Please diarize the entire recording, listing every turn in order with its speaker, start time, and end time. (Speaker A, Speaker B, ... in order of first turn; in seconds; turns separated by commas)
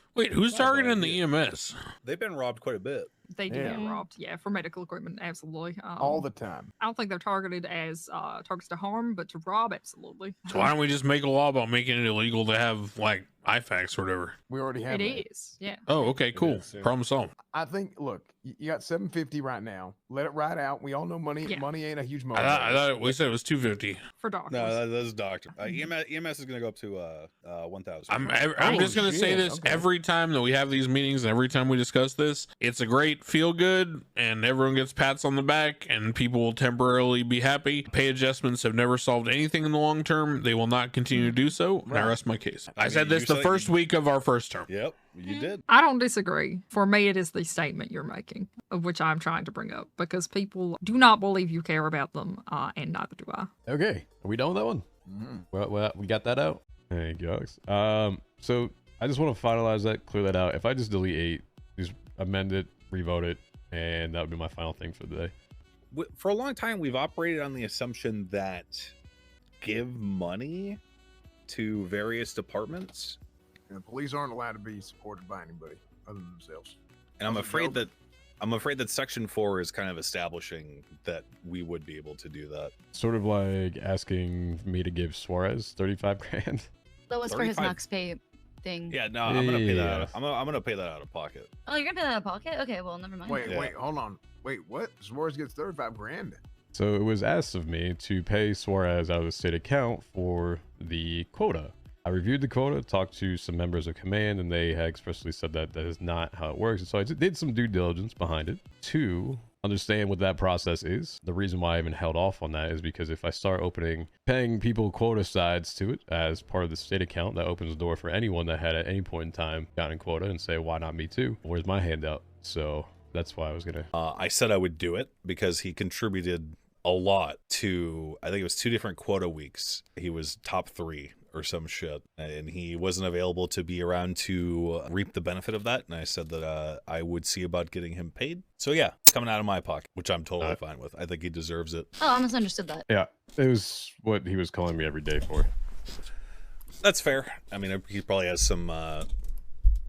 Speaker A: 0.1-1.7, Speaker B: 0.5-1.1, Speaker B: 2.0-3.1, Speaker C: 3.3-6.3, Speaker D: 3.5-3.8, Speaker E: 3.6-4.1, Speaker D: 6.0-6.7, Speaker C: 6.8-10.7, Speaker A: 10.5-14.3, Speaker D: 14.5-15.2, Speaker C: 14.9-15.9, Speaker A: 15.9-17.3, Speaker B: 16.3-16.9, Speaker D: 17.5-23.1, Speaker A: 22.3-24.0, Speaker C: 24.2-24.8, Speaker B: 24.5-28.7, Speaker A: 28.1-44.7, Speaker D: 28.6-29.9, Speaker D: 41.9-42.2, Speaker B: 42.8-43.7, Speaker B: 44.7-45.6, Speaker E: 45.2-45.6, Speaker C: 45.7-53.5, Speaker F: 53.6-54.8, Speaker D: 55.1-55.4, Speaker F: 55.5-65.3, Speaker B: 65.9-68.9, Speaker B: 69.6-70.8, Speaker B: 71.5-73.2, Speaker D: 73.7-77.9, Speaker B: 77.2-82.7, Speaker F: 82.9-86.7, Speaker E: 87.1-89.0, Speaker B: 87.3-87.8, Speaker B: 88.9-91.5, Speaker F: 89.2-90.1, Speaker E: 91.7-93.6, Speaker D: 93.2-96.4, Speaker B: 93.4-93.7, Speaker F: 96.7-123.9, Speaker B: 124.0-141.9, Speaker E: 142.0-142.8, Speaker F: 142.9-145.5, Speaker B: 146.8-149.1